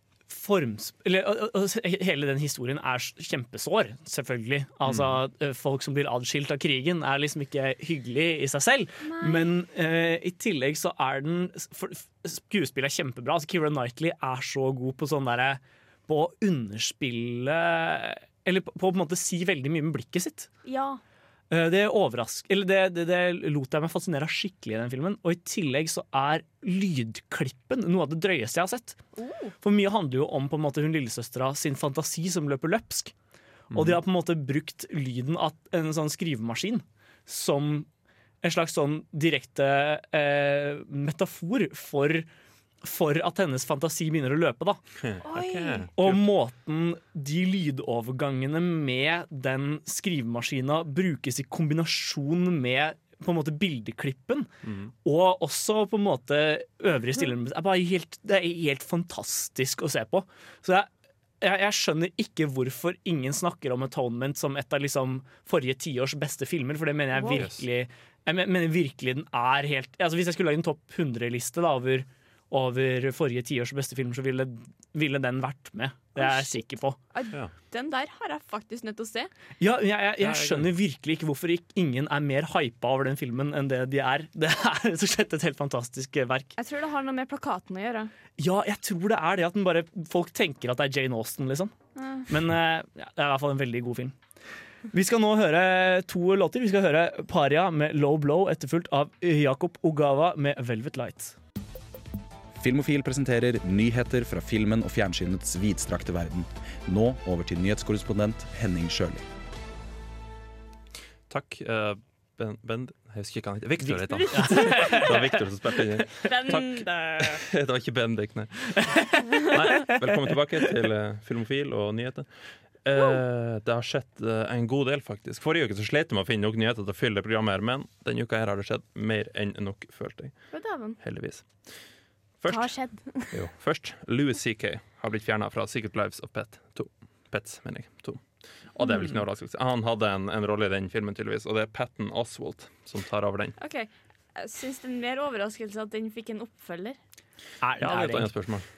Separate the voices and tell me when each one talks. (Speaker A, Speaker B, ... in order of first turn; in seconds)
Speaker A: 0.3-20.5, 21.5-29.0, 29.6-33.1, 33.7-37.9, 38.4-42.3, 42.8-44.8, 46.0-54.5, 55.0-60.9, 61.4-77.0, 79.6-86.5, 88.4-91.7, 92.3-94.2, 94.9-101.4, 113.8-115.1, 119.9-120.1, 147.6-148.4
Speaker B: 4.8-5.2, 33.7-34.0, 45.0-46.2, 54.6-54.9, 67.3-67.6, 80.2-80.7, 111.3-118.9, 119.5-131.7, 132.4-143.6, 147.8-148.7
Speaker C: 9.0-9.5, 20.6-21.0, 29.2-29.6, 45.2-45.9, 76.2-76.5, 77.1-79.3, 86.6-88.1, 92.0-92.3, 114.3-115.2, 116.2-117.5, 130.5-131.0, 132.5-133.4, 143.6-147.0
Speaker D: 102.6-109.2